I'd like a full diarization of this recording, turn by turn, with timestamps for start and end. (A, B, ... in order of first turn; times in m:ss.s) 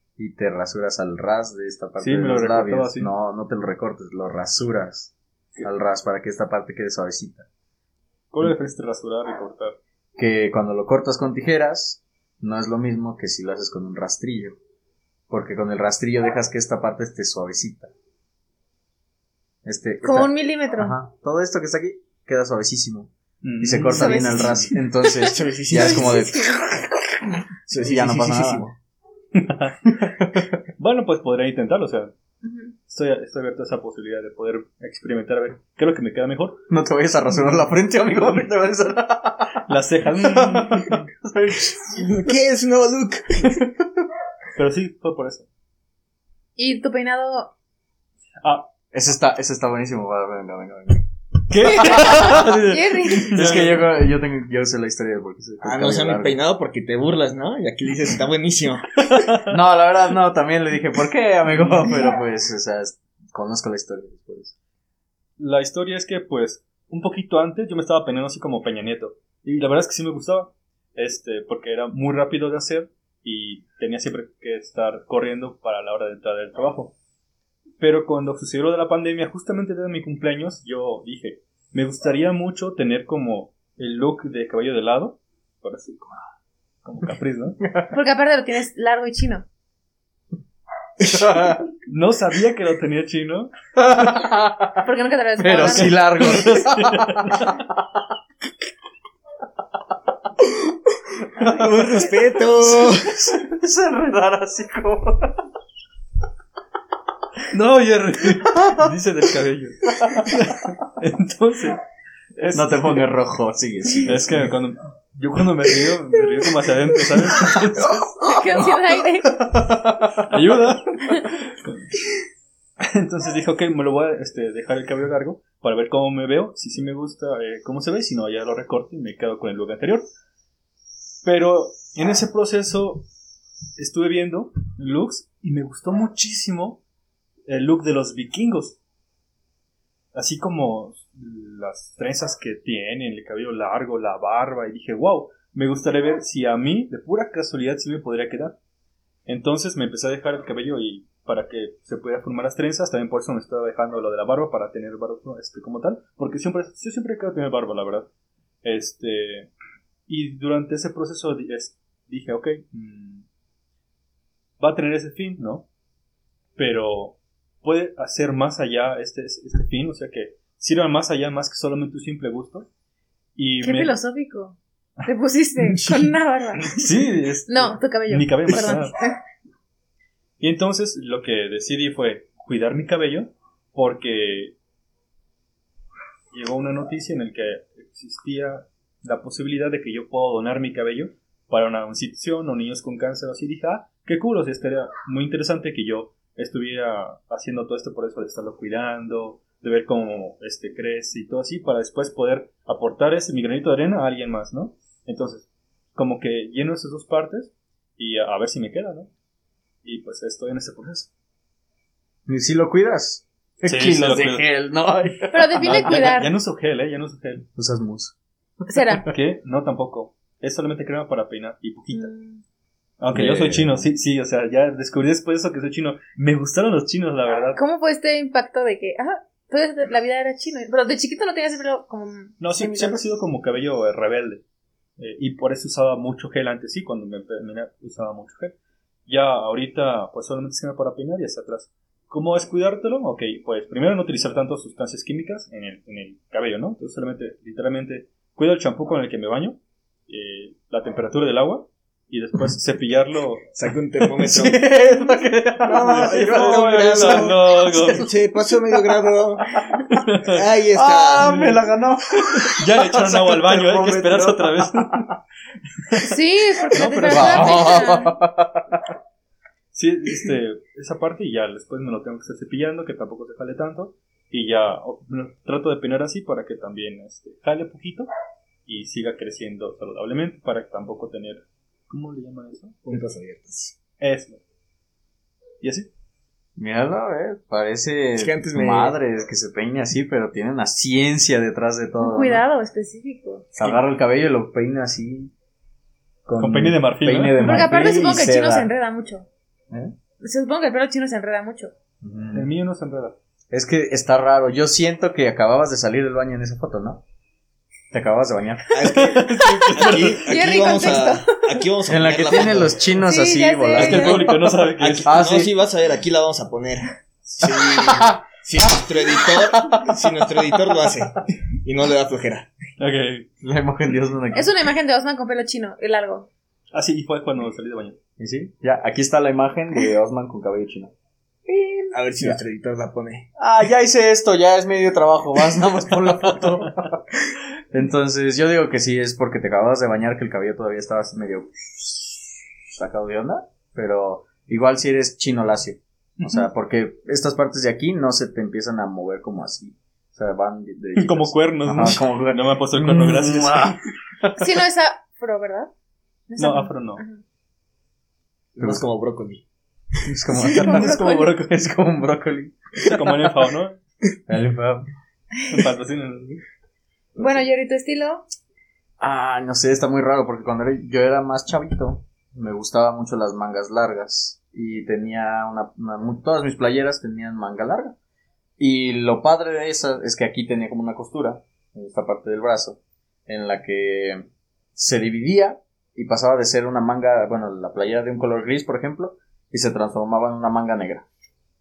0:00.2-0:07.5 A
0:02.0-0:03.1 B
0:08.3-0:09.8 B
0:10.2-0:14.6 A
0:15.3-0:17.9 A
0:19.6-0:27.3 A
0:20.0-0:21.0 C
0:23.4-0:24.6 B
0:23.9-0:26.6 C
0:25.1-0:26.4 D
0:27.7-0:28.7 D
0:27.8-0:28.7 A
0:29.3-0:30.1 B
0:29.9-0:30.6 A
0:30.8-0:32.1 B
0:32.4-0:32.7 C
0:32.9-0:36.6 B
0:36.7-0:39.7 A
0:39.7-0:41.0 B
0:40.2-0:42.3 A
0:42.0-0:43.6 D
0:43.4-0:43.8 A
0:44.6-0:45.5 B
0:46.6-0:47.5 C
0:48.4-0:48.7 B
0:48.9-0:51.0 A
0:51.5-0:52.6 B
0:51.6-0:56.4 A
0:51.8-0:53.4 C
0:53.1-0:53.9 B
0:55.6-0:59.3 D
0:59.1-0:59.5 B
0:59.5-1:04.5 A
1:01.5-1:02.0 B
1:05.4-1:17.0 B
1:17.8-1:26.2 B
1:26.8-1:27.6 B
1:27.6-1:27.9 A
1:27.9-1:29.5 C
1:31.0-1:31.7 A
1:31.9-1:33.5 B
1:33.8-1:34.9 A
1:34.8-1:36.0 C
1:35.4-1:38.1 A
1:35.7-1:37.5 B
1:41.3-1:45.5 A
1:41.4-1:43.2 D
1:47.5-1:51.8 B
1:48.4-1:49.0 A
1:49.9-1:50.4 A
1:52.4-1:53.1 B
1:52.5-1:54.6 A
1:54.0-1:58.1 B
1:57.4-2:00.2 A
1:58.2-1:59.3 C
2:00.2-2:02.0 B
2:02.8-2:10.1 B
2:11.2-2:13.1 B
2:13.8-2:16.8 B
2:17.5-2:18.8 B
2:20.1-2:28.6 B
2:29.3-2:38.1 B
2:38.6-2:39.5 B
2:40.1-2:43.3 B
2:44.6-2:45.7 B
2:46.6-2:52.7 B
2:53.4-2:54.0 B
2:53.6-2:56.9 C
2:55.6-2:56.0 D
2:56.6-2:59.0 B
2:57.5-2:59.2 C
3:00.4-3:04.6 B
3:06.3-3:29.1 B
3:29.8-3:31.1 B
3:32.3-3:36.1 A
3:33.6-3:34.5 B
3:35.3-3:36.3 C
3:35.6-3:37.5 B
3:37.6-3:38.2 A
3:38.7-3:39.1 C
3:38.7-3:39.1 A
3:39.1-3:42.1 B
3:41.9-3:42.4 C
3:43.0-3:47.6 B
3:43.1-3:43.9 A
3:47.6-3:53.0 C
3:52.4-3:54.4 B
3:55.0-3:58.6 B
3:59.1-4:13.5 B
4:13.6-4:14.6 D
4:14.2-4:18.1 A
4:15.6-4:19.5 D
4:15.7-4:18.1 B
4:19.9-4:20.4 B
4:20.2-4:21.3 D
4:20.7-4:25.1 A
4:21.2-4:21.6 B
4:22.5-4:25.1 B
4:26.0-4:28.2 C
4:26.7-4:27.9 B
4:27.0-4:28.9 A
4:29.7-4:38.1 B
4:38.7-4:43.0 B
4:42.8-4:43.8 D
4:44.0-4:44.4 B
4:45.6-4:45.9 B
4:46.6-4:52.4 A
4:48.2-4:49.0 D
4:52.0-4:53.5 C
4:53.6-4:55.3 A
4:56.3-4:58.7 A
4:56.4-4:57.7 B
4:57.4-4:59.3 C
5:00.2-5:01.7 C
5:02.0-5:02.5 A
5:02.3-5:03.2 B
5:03.5-5:07.0 A
5:07.9-5:09.0 A
5:08.7-5:12.9 D
5:08.8-5:10.2 B
5:09.4-5:11.6 C
5:11.9-5:15.5 A
5:13.0-5:14.3 C
5:13.7-5:15.2 B
5:14.8-5:22.5 D
5:17.5-5:20.8 A
5:22.8-5:23.3 B
5:23.4-5:24.5 A
5:24.3-5:26.3 C
5:26.7-5:28.0 B
5:28.2-5:30.9 A
5:31.5-5:32.4 A
5:31.9-5:33.3 D
5:33.4-5:54.6 A
5:36.4-5:36.7 B
5:46.2-5:46.5 B
5:51.0-5:53.8 B
5:54.4-5:55.7 C
5:56.3-5:57.2 C
5:56.4-5:57.0 B
5:58.6-5:59.4 D
5:58.6-5:58.8 A
6:00.0-6:03.4 A
6:00.4-6:01.3 C
6:00.5-6:01.5 B
6:02.8-6:03.8 B
6:04.3-6:04.9 A
6:05.5-6:06.4 B
6:07.2-6:08.3 C
6:09.0-6:18.0 A
6:18.6-6:31.0 A